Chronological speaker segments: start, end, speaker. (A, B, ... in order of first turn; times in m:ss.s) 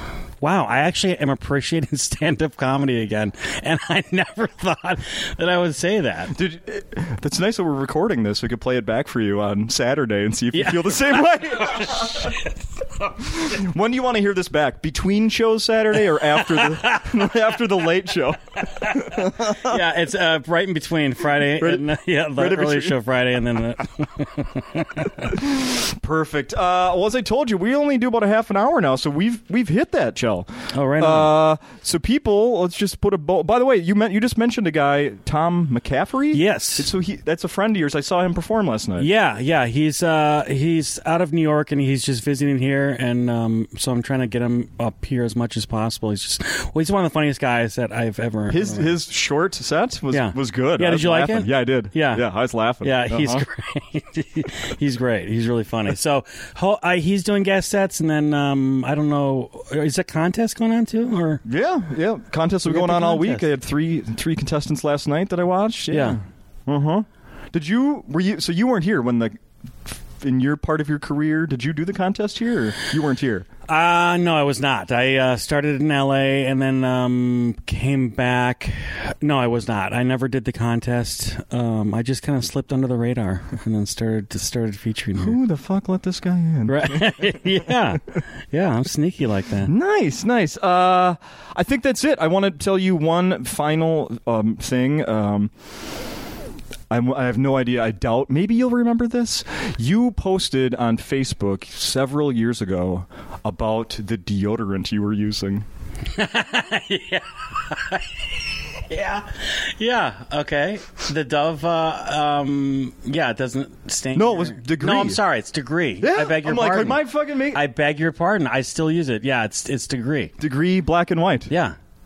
0:00.4-0:06.4 A
0:06.3-0:12.4 B
0:10.5-0:13.1 A
0:13.2-0:19.8 B
0:16.5-0:17.1 A
0:18.8-0:25.4 A
0:21.6-0:23.0 B
0:25.2-0:39.1 B
0:30.7-0:31.3 A
0:36.3-0:36.9 A
0:39.0-0:48.9 A
0:48.5-0:53.4 B
0:50.1-0:52.2 A
0:52.8-1:01.4 A
1:01.4-1:09.4 B
1:02.6-1:03.4 A
1:05.9-1:06.2 A
1:10.2-1:13.5 B
1:13.7-1:25.4 A
1:25.2-1:27.8 B
1:26.7-1:29.7 A
1:29.6-1:35.5 B
1:36.9-1:45.6 B
1:46.1-2:00.3 A
1:54.1-1:55.2 B
1:56.0-1:57.6 B
2:00.4-2:01.5 B
2:01.5-2:01.8 A